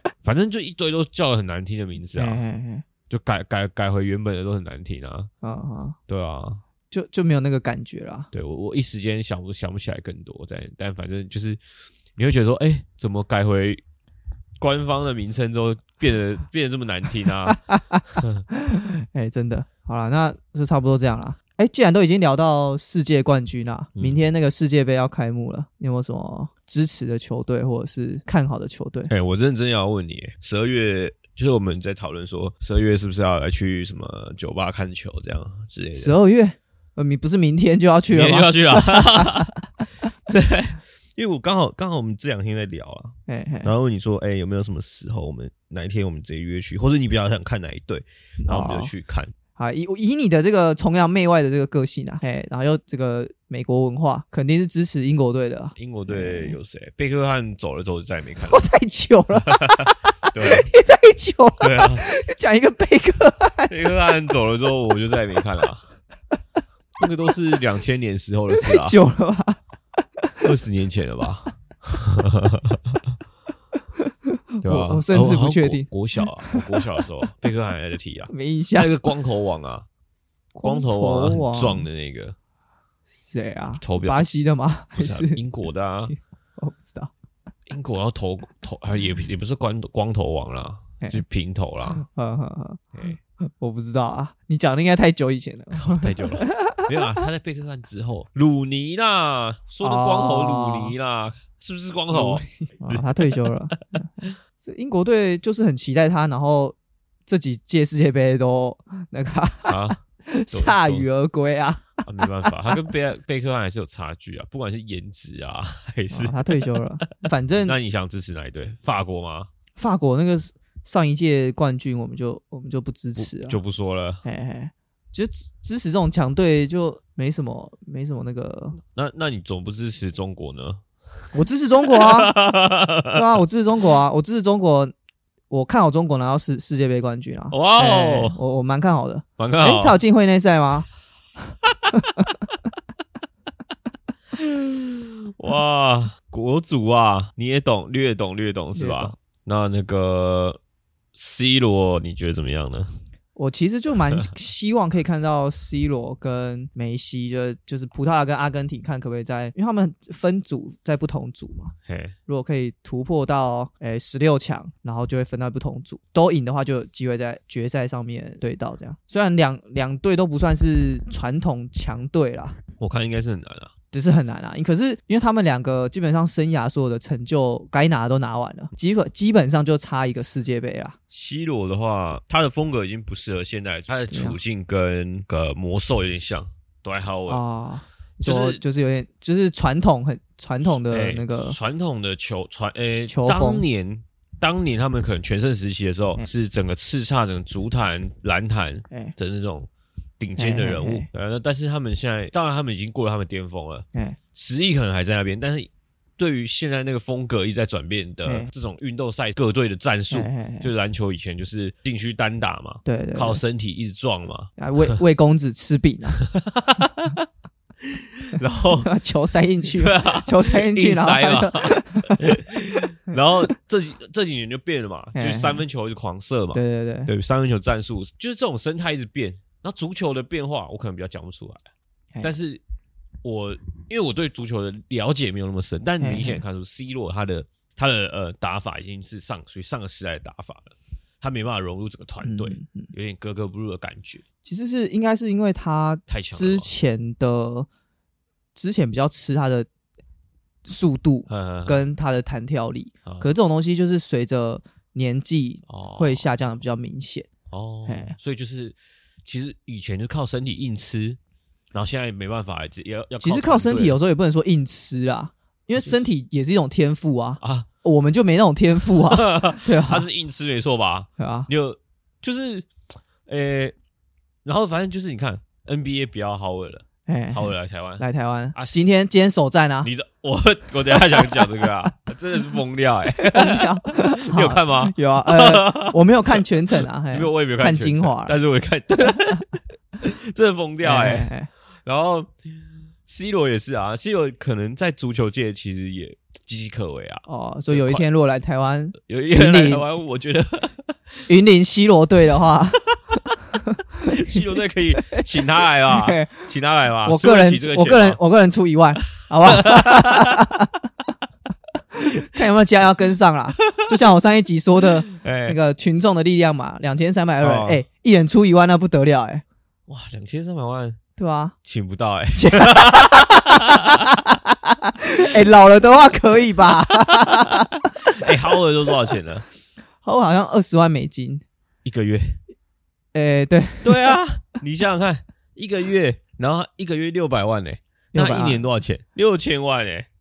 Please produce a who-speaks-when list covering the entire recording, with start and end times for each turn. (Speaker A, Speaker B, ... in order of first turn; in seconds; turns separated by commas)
Speaker A: 0.2-2.4, Speaker B: 2.1-2.9, Speaker A: 3.1-5.3, Speaker B: 5.4-6.0, Speaker A: 6.1-6.6, Speaker B: 6.9-8.3, Speaker A: 8.3-11.6, Speaker A: 12.2-13.8, Speaker A: 14.6-18.4, Speaker B: 17.5-29.1, Speaker A: 29.1-36.1, Speaker B: 36.0-39.8, Speaker A: 38.1-39.5, Speaker A: 40.3-49.3, Speaker B: 43.3-43.7, Speaker B: 48.4-48.9, Speaker B: 49.6-56.6, Speaker A: 55.8-58.6, Speaker B: 58.4-64.1, Speaker A: 59.4-60.7, Speaker A: 61.6-62.0, Speaker A: 63.7-65.8, Speaker A: 67.0-69.0, Speaker B: 68.5-69.6, Speaker A: 70.4-73.0, Speaker B: 74.0-75.9, Speaker A: 74.6-79.9, Speaker B: 76.4-77.0, Speaker B: 78.3-79.0, Speaker B: 80.5-81.9, Speaker A: 80.6-82.4, Speaker B: 83.2-85.4, Speaker A: 83.8-84.4, Speaker A: 85.0-86.1, Speaker B: 86.1-87.1, Speaker A: 87.7-92.0, Speaker B: 91.9-97.2, Speaker A: 95.7-104.3, Speaker B: 99.8-100.9, Speaker B: 102.1-106.8, Speaker B: 107.3-112.0, Speaker A: 109.7-111.1, Speaker A: 112.0-116.8, Speaker B: 116.1-117.8, Speaker A: 117.6-119.5, Speaker B: 119.8-123.6, Speaker A: 123.2-124.2, Speaker B: 124.2-128.8, Speaker A: 128.8-130.8, Speaker B: 131.3-132.4, Speaker A: 131.9-133.2, Speaker B: 133.1-134.9, Speaker B: 135.5-140.9, Speaker A: 137.5-138.4, Speaker A: 139.4-140.0, Speaker A: 144.3-150.6, Speaker B: 148.8-149.2, Speaker A: 151.1-152.9, Speaker B: 153.4-161.7, Speaker A: 161.9-162.2, Speaker B: 162.3-172.6, Speaker A: 172.8-173.7, Speaker B: 173.9-181.0, Speaker A: 181.1-187.4, Speaker B: 184.1-184.4, Speaker B: 187.3-191.6, Speaker A: 188.2-188.6, Speaker A: 190.9-199.7, Speaker B: 193.1-193.7, Speaker A: 200.2-214.5, Speaker B: 200.4-201.1, Speaker B: 210.1-210.7, Speaker B: 212.8-213.4, Speaker B: 214.6-216.2, Speaker A: 216.2-217.3, Speaker A: 217.8-218.9, Speaker B: 218.8-223.2, Speaker A: 219.7-231.6, Speaker B: 225.2-225.6, Speaker B: 226.5-227.1, Speaker A: 232.2-232.6, Speaker A: 233.2-244.2, Speaker B: 236.0-236.4, Speaker B: 242.2-242.9, Speaker B: 244.4-247.7, Speaker A: 246.1-246.7, Speaker B: 248.6-249.7, Speaker B: 250.7-257.3, Speaker A: 251.3-251.8, Speaker A: 255.7-256.3, Speaker A: 257.5-261.2, Speaker B: 257.9-258.1, Speaker A: 261.7-264.0, Speaker B: 263.2-270.1, Speaker A: 267.4-267.7, Speaker A: 268.9-272.7, Speaker B: 271.2-271.5, Speaker A: 273.3-273.7, Speaker A: 274.4-278.9, Speaker B: 277.1-279.9, Speaker A: 279.8-291.3, Speaker B: 281.1-281.6, Speaker B: 283.1-288.4, Speaker B: 290.8-291.5, Speaker A: 291.9-298.1, Speaker B: 297.3-299.8, Speaker A: 299.0-301.0, Speaker B: 301.3-302.9, Speaker B: 303.6-304.4, Speaker A: 304.1-308.2, Speaker B: 305.0-306.5, Speaker B: 307.1-310.8, Speaker A: 309.4-310.5, Speaker B: 312.0-319.4, Speaker A: 315.1-315.6, Speaker A: 317.4-317.8, Speaker A: 319.9-321.0, Speaker B: 321.2-321.6, Speaker A: 321.6-324.2, Speaker B: 322.4-328.3, Speaker A: 327.0-329.4, Speaker B: 330.0-331.4, Speaker A: 331.9-332.4, Speaker B: 333.1-334.2, Speaker A: 333.8-340.1, Speaker B: 338.1-338.6